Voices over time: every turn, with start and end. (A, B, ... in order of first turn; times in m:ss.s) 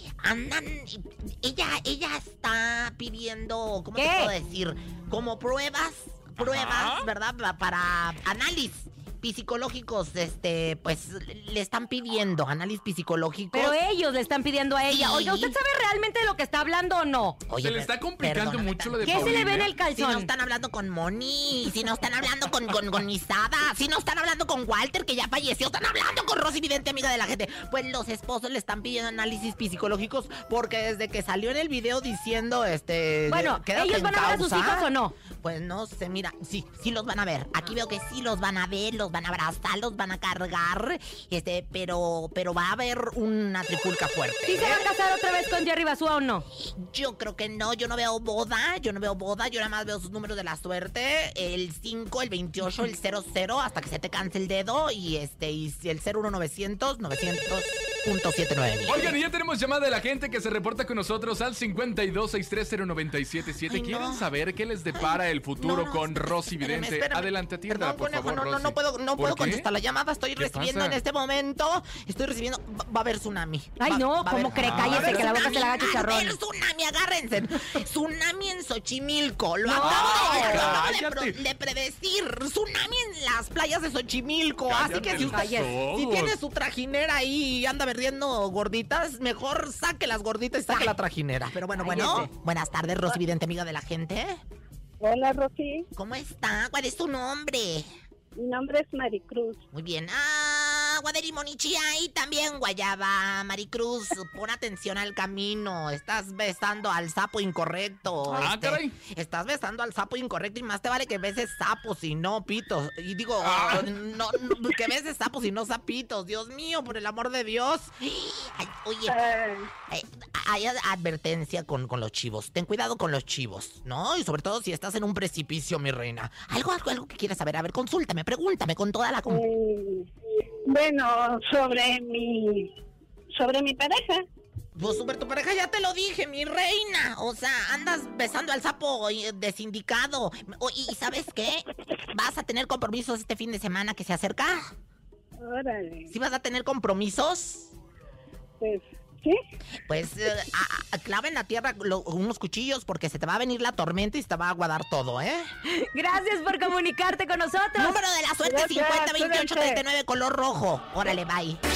0:00.2-0:13.8 A
0:03.9-0:04.3 B
0:06.4-0:07.0 C
0:13.5-0:17.4 B
0:14.9-0:15.6 A
0:17.5-0:44.8 A
0:17.6-0:19.7 C
0:19.0-0:20.3 B
0:33.3-0:35.1 B
0:44.4-0:46.4 B
0:46.6-0:59.1 A
0:58.8-1:09.7 C
1:03.7-1:04.3 A
1:04.9-1:34.4 A
1:10.4-1:11.0 C
1:13.8-1:16.4 B
1:14.5-1:15.7 C
1:19.6-1:20.8 B
1:19.8-1:21.4 C
1:24.7-1:26.4 C
1:25.2-1:25.7 B
1:31.8-1:32.3 B
1:31.9-1:32.2 C
1:35.0-1:35.9 D
1:36.0-1:37.9 A
1:38.4-1:39.6 D
1:39.7-1:59.2 A
1:48.2-1:48.9 C
1:53.4-1:53.9 C
1:59.1-1:59.7 D
1:59.9-2:09.4 A
2:09.3-2:10.1 D
2:10.6-2:12.7 D
2:13.3-2:14.2 D
2:14.8-2:24.7 A
2:25.4-2:26.1 D
2:26.1-2:27.7 A
2:28.6-2:29.4 D
2:29.9-2:35.4 A
2:35.7-2:38.0 B
2:37.8-2:41.6 A
2:38.4-2:39.8 D